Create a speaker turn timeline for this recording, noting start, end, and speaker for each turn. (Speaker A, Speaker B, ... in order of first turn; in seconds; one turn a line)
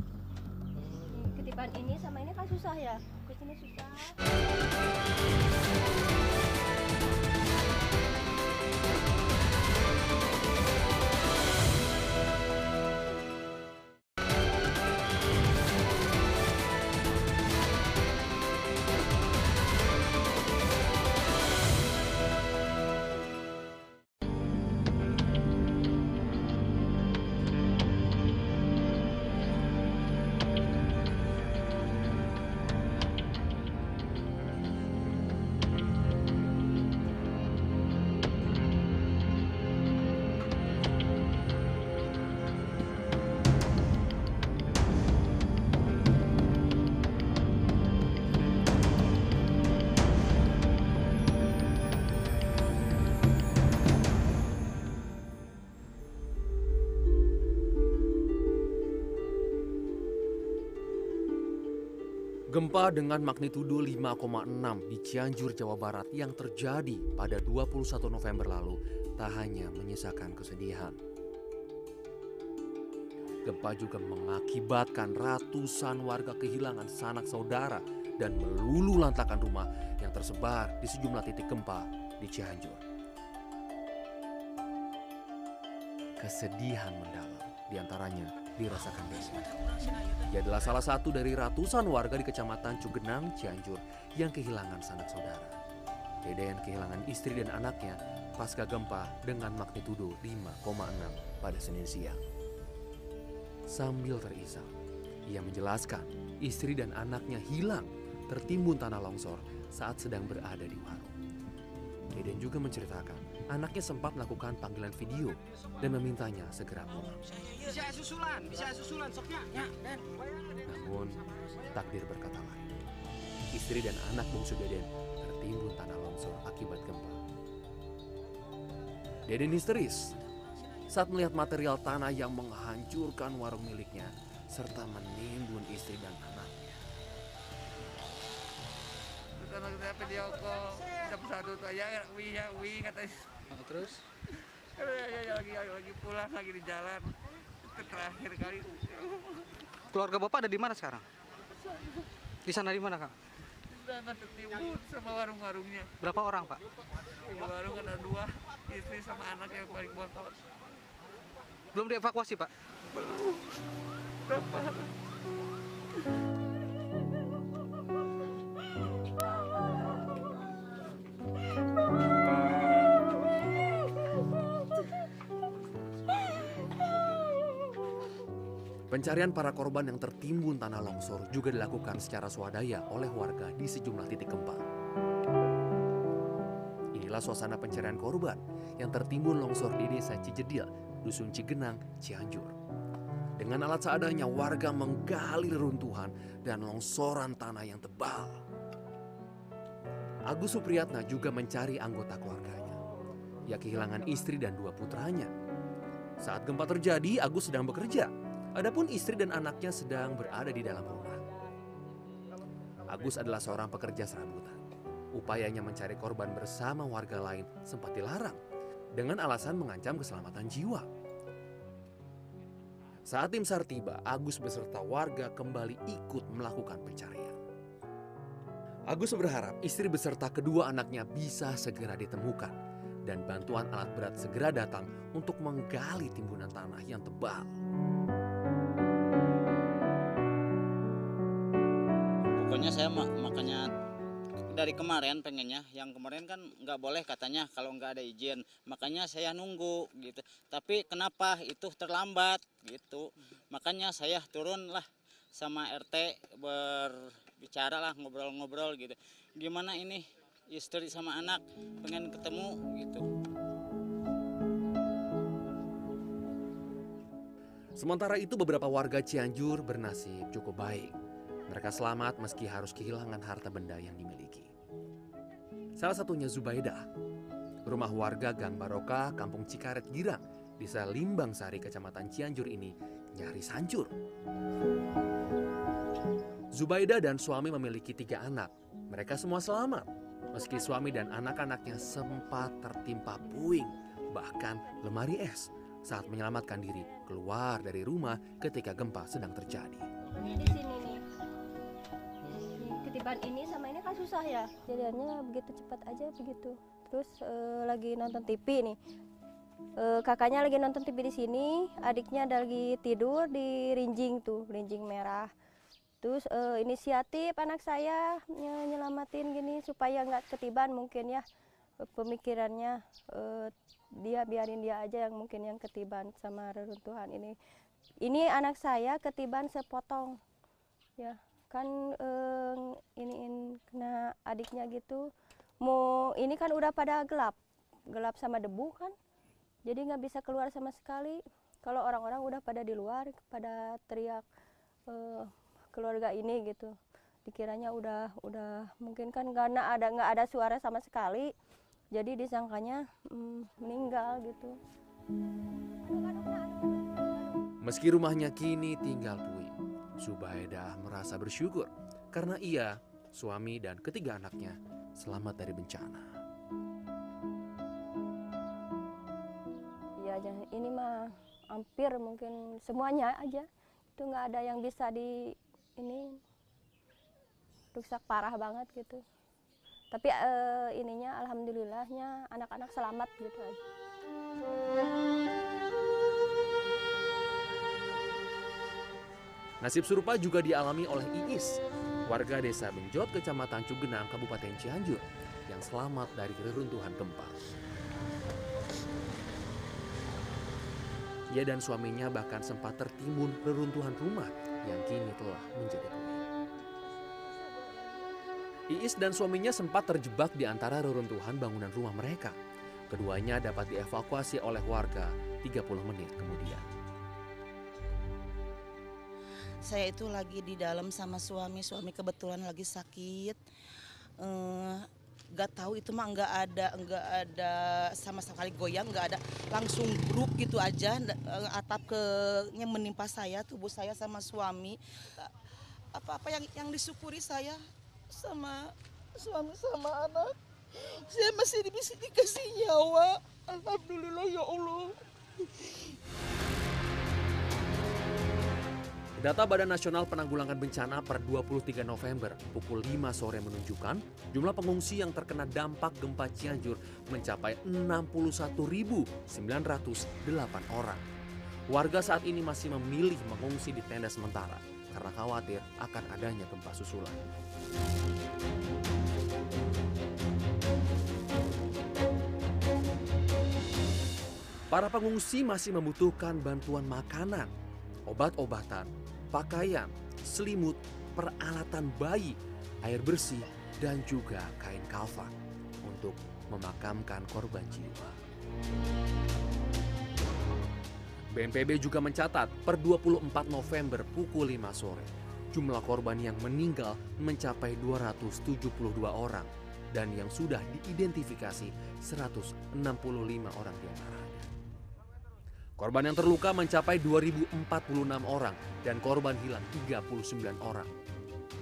Speaker A: 1.1-4.2
Speaker B: 62.5-71.0
Speaker B: 73.5-82.8
Speaker B: 86.2-89.4
Speaker B: 90.3-95.5
Speaker B: 96.2-102.2
Speaker B: 103.7-104.7
Speaker B: 105.3-111.1
Speaker B: 112.1-117.2
Speaker C: 117.5-118.2
Speaker B: 120.6-121.2
Speaker B: 121.7-122.8
Speaker B: 123.5-127.2
Speaker B: 129.3-130.1
Speaker B: 130.9-136.5
Speaker D: 139.4-143.2
Speaker D: 144.8-147.0
Speaker D: 147.6-149.4
Speaker E: 149.9-151.0
Speaker E: 152.4-153.1
Speaker D: 153.7-155.9
Speaker E: 156.0-156.6
Speaker D: 157.3-160.3
Speaker E: 161.7-162.5
Speaker D: 164.3-164.9
Speaker B: 178.9-184.6
Speaker B: 186.9-192.5
Speaker B: 193.4-198.4
Speaker B: 200.2-202.8
Speaker B: 203.5-205.3
Speaker B: 206.2-211.2
Speaker B: 212.9-214.6
Speaker B: 215.1-218.4
Speaker B: 218.9-220.9
Speaker B: 223.1-227.4
Speaker B: 228.9-237.5
Speaker F: 242.4-243.7
Speaker F: 244.5-263.0
Speaker B: 267.8-270.9
Speaker B: 271.5-274.5
Speaker B: 275.8-276.8
Speaker B: 277.7-283.9
Speaker B: 286.5-299.9
Speaker A: 296.2-297.1
Speaker A: 300.1-301.0
Speaker A: 302.5-308.8
Speaker A: 309.8-315.3
Speaker A: 316.0-321.2
Speaker A: 321.9-327.4
Speaker A: 328.0-330.2
Speaker A: 331.0-335.1
Speaker A: 335.6-337.4
Speaker A: 337.9-338.9
Speaker A: 339.6-344.2
Speaker A: 344.9-346.7
Speaker A: 347.2-351.3
Speaker A: 351.9-354.6
Speaker A: 355.9-357.4
Speaker B: 357.6-366.1
Speaker A: 370.0-376.2
Speaker A: 377.7-379.0
Speaker A: 379.9-383.6
Speaker B: 389.6-397.4
Speaker B: 401.3-406.2
Speaker B: 408.7-412.4
Speaker B: 412.9-416.7
Speaker C: 419.6-423.4
Speaker C: 424.2-435.3
Speaker C: 435.9-437.6
Speaker C: 438.1-445.0
Speaker B: 449.2-461.0
Speaker B: 461.7-467.2
Speaker B: 474.7-477.5
Speaker B: 478.1-488.2
Speaker B: 491.3-504.5
Speaker B: 505.8-510.9